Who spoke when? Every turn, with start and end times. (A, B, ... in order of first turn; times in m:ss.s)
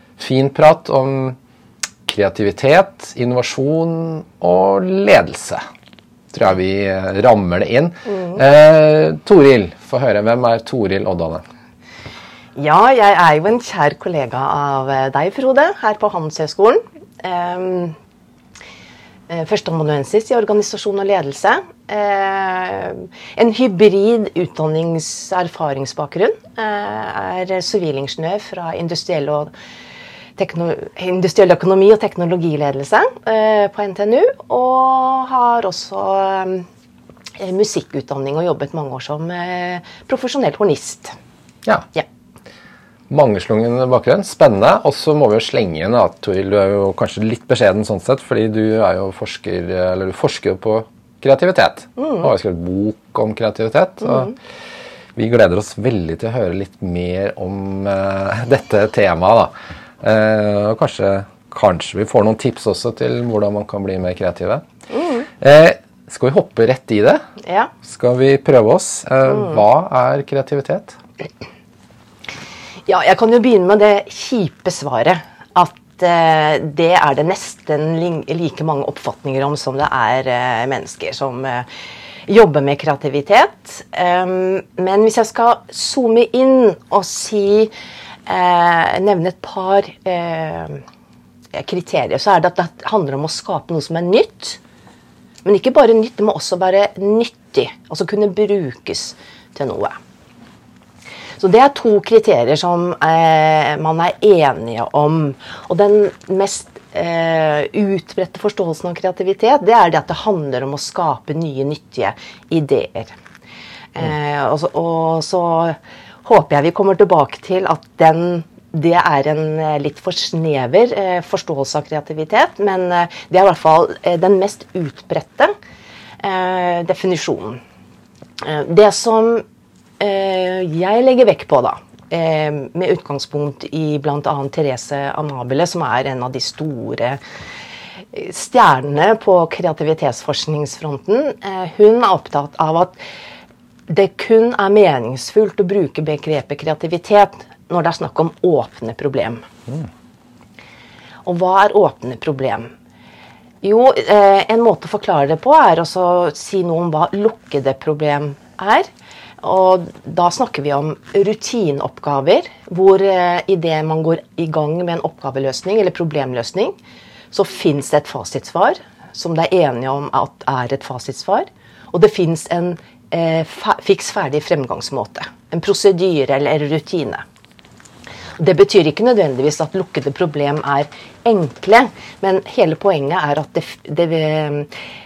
0:00.2-0:01.4 A
0:02.1-0:05.6 A
0:06.3-0:11.4 A
0:12.6-0:18.0 B
0:19.3-0:29.5 B
0:30.4-0:36.7 B
0:37.4-0:41.2 B
0:43.1-0:54.4 A
0:52.0-0:52.3 B
0:55.2-1:04.6 A
1:04.9-1:05.3 B
1:05.4-1:07.2 A
1:07.4-1:07.7 B
1:07.8-1:11.0 A
1:12.9-1:21.7 B
1:22.3-1:27.7 B
1:28.3-1:30.8 B
1:31.5-1:34.6 B
1:35.4-1:40.0 B
1:41.4-1:53.2 B
1:54.0-2:05.5 B
2:06.2-2:07.6 B
2:08.4-2:09.4 B
2:10.0-2:17.2 B
2:18.1-2:23.0 B
2:23.9-2:29.4 B
2:31.3-2:32.7 B
2:33.6-2:38.9 B
2:39.4-2:46.8 B
2:47.3-2:57.2 B
2:58.4-3:04.7 B